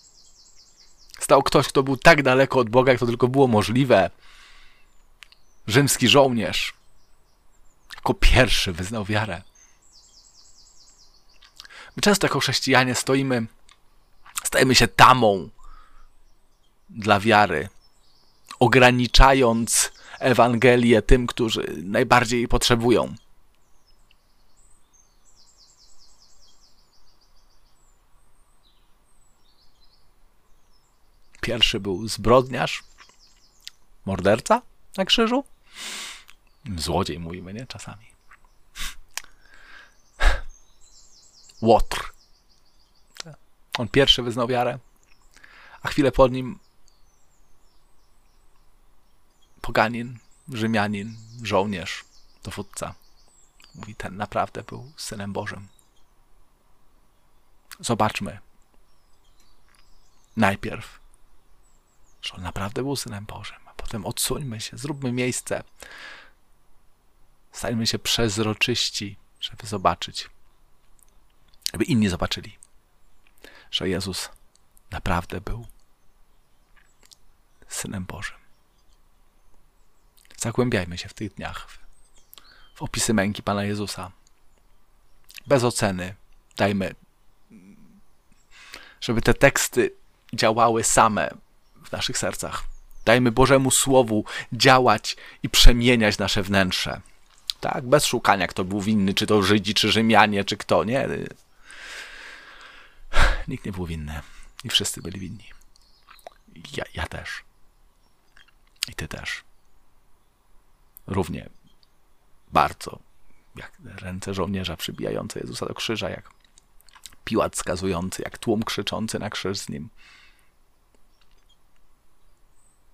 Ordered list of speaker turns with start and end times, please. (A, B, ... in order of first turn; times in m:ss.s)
0:01.2-0:04.1 A
0:05.6-0:06.7 A
0:08.0-0:09.4 A
0:11.9-0:13.5 A
0:14.4-0:15.5 A
0:16.9-0:17.7 A
0:18.6-0:23.2 A
0:31.4-0:32.8 A
0:34.0-0:35.5 A
0:36.6-0:38.1 A
0:41.6-0:42.1 A
0:43.2-0:44.8 A
0:45.8-0:46.6 A
0:49.6-0:53.0 A
0:53.7-0:55.7 A
0:57.8-0:58.4 A
1:00.4-1:01.0 A
1:02.2-1:05.6 A
1:07.5-1:10.3 A
1:11.7-1:12.6 A
1:13.7-1:14.3 A
1:14.9-1:15.7 A
1:17.7-1:18.4 A
1:20.4-1:21.8 A
1:22.8-1:24.1 A
1:25.5-1:27.0 A
1:29.0-1:37.0 A
1:37.6-1:41.4 A
1:43.1-1:45.5 A
1:46.5-1:47.4 A
1:48.9-1:49.4 A
1:51.1-1:51.5 A
1:52.5-1:56.3 A
1:57.2-1:59.9 A